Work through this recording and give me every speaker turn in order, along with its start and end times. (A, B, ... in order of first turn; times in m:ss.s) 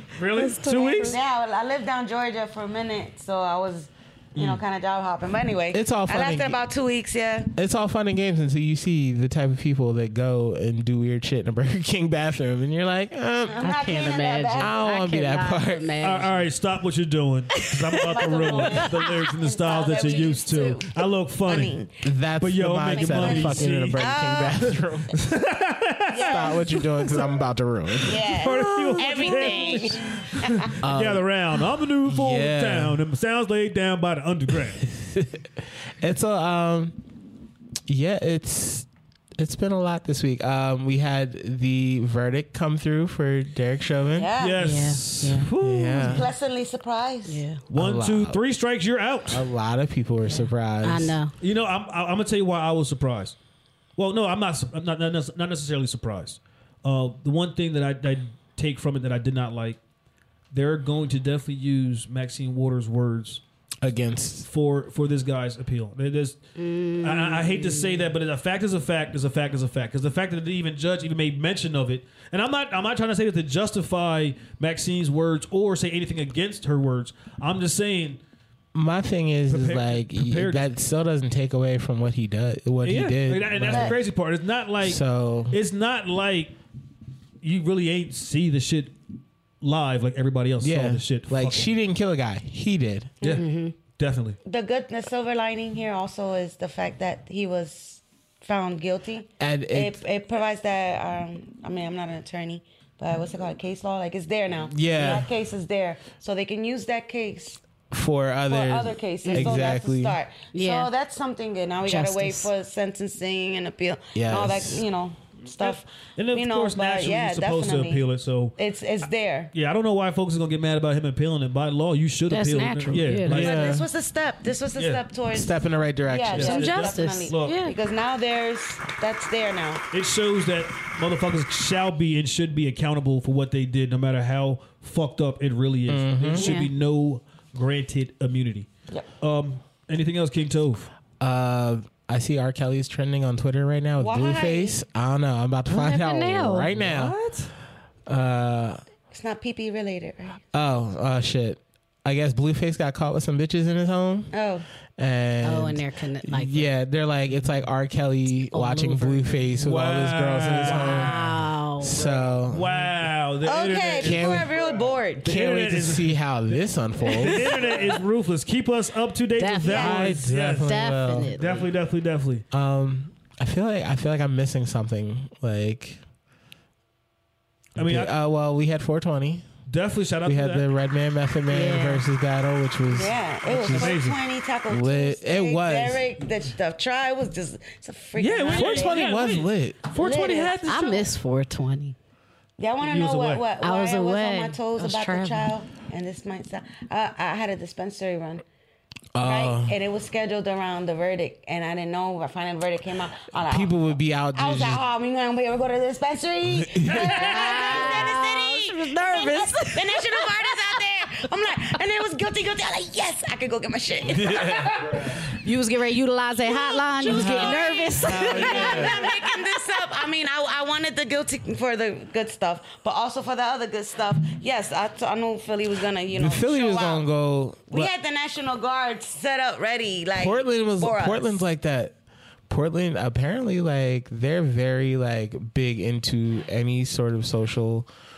0:00.1-0:01.2 A
0:00.3-0:01.2 B
0:01.0-0:07.5 C
0:04.3-0:04.6 A
0:05.7-0:06.6 D
0:07.5-0:13.7 D
0:13.5-0:14.8 C
0:13.6-0:16.4 B
0:14.6-0:15.9 D
0:16.0-0:21.8 A
0:17.6-0:19.0 B
0:18.0-0:20.9 C
0:21.4-0:21.9 C
0:22.0-0:25.2 D
0:22.4-0:27.3 A
0:22.9-0:24.6 C
0:26.1-0:26.6 C
0:26.2-0:28.5 D
0:28.0-0:30.7 C
0:28.1-0:34.8 A
0:29.2-0:29.8 B
0:30.8-0:31.2 D
0:32.0-0:33.0 D
0:34.8-0:37.0 D
0:37.9-0:38.9 D
0:39.4-0:44.3 D
0:44.1-0:44.6 C
0:44.4-0:46.3 A
0:44.6-0:45.5 B
0:45.6-0:46.3 D
0:46.0-0:47.4 C
0:47.3-0:47.6 B
0:47.7-0:49.4 A
0:47.7-0:48.4 D
0:49.3-0:51.2 D
0:50.3-0:51.3 B
0:51.4-0:53.4 A
0:54.0-0:59.8 A
1:00.5-1:03.4 A
1:03.8-1:04.5 D
1:04.4-1:06.4 A
1:06.6-1:08.1 B
1:06.9-1:18.2 A
1:18.7-1:24.0 D
1:19.5-1:20.6 A
1:22.8-1:26.5 A
1:23.7-1:24.0 C
1:24.8-1:25.6 D
1:27.4-1:29.0 A
1:29.6-1:31.7 A
1:30.6-1:33.2 D
1:33.2-1:33.5 C
1:33.3-1:33.7 B
1:34.0-1:34.4 A
1:34.4-1:47.6 C
1:39.4-1:40.0 D
1:44.7-1:45.3 D
1:47.9-1:50.2 D
1:48.5-1:58.0 C
1:49.2-1:49.6 B
1:50.5-1:50.9 B
1:51.8-1:52.5 B
1:54.1-1:54.8 D
1:55.6-1:58.6 A
1:58.6-1:59.5 C
1:59.5-2:03.7 A
2:02.3-2:03.5 B
2:03.2-2:03.8 D
2:03.3-2:05.6 C
2:04.8-2:05.0 A
2:05.3-2:06.6 D
2:06.1-2:09.8 C
2:06.4-2:07.6 A
2:06.4-2:07.8 B
2:09.9-2:18.7 A
2:15.9-2:16.5 D
2:16.3-2:16.7 B
2:19.2-2:20.9 A
2:21.2-2:27.2 D
2:24.0-2:24.8 C
2:25.7-2:26.7 B
2:26.7-2:27.5 A
2:28.1-2:28.8 D
2:29.1-2:30.4 C
2:30.5-2:34.3 D
2:34.3-2:34.6 C
2:35.0-2:42.7 D
2:35.4-2:36.7 B
2:38.5-2:39.5 B
2:39.6-2:41.4 A
2:40.6-2:42.0 B
2:42.0-2:44.6 A
2:43.4-2:45.3 C
2:44.0-2:44.5 D
2:45.2-2:47.7 D
2:45.2-2:46.3 A
2:47.1-2:48.0 B
2:47.1-2:50.7 A
2:49.4-2:50.0 B
2:49.6-2:50.0 C
2:49.7-2:51.4 D
2:50.6-2:51.6 B
2:51.3-2:52.4 A
2:52.5-2:56.0 D
2:57.8-2:58.1 A
2:57.8-2:59.4 D
2:59.7-3:00.6 A
3:00.2-3:04.0 D
3:01.5-3:02.0 B
3:02.9-3:09.1 C
3:03.5-3:04.2 A
3:04.7-3:06.0 D
3:08.2-3:11.1 A
3:08.5-3:09.8 D
3:09.9-3:10.7 C
3:10.6-3:12.0 B
3:12.6-3:18.4 C
3:12.8-3:13.4 A
3:13.6-3:15.5 B
3:19.1-3:19.8 D
3:19.2-3:35.1 C
3:23.5-3:24.8 D
3:26.6-3:27.2 D
3:26.9-3:27.8 A
3:27.0-3:30.5 B
3:34.3-3:34.7 D
3:35.3-3:39.1 B
3:36.4-3:47.1 C
3:37.1-3:39.1 D
3:46.1-3:47.9 D
3:47.7-3:51.4 C
3:50.1-3:51.9 D
3:52.5-3:57.9 D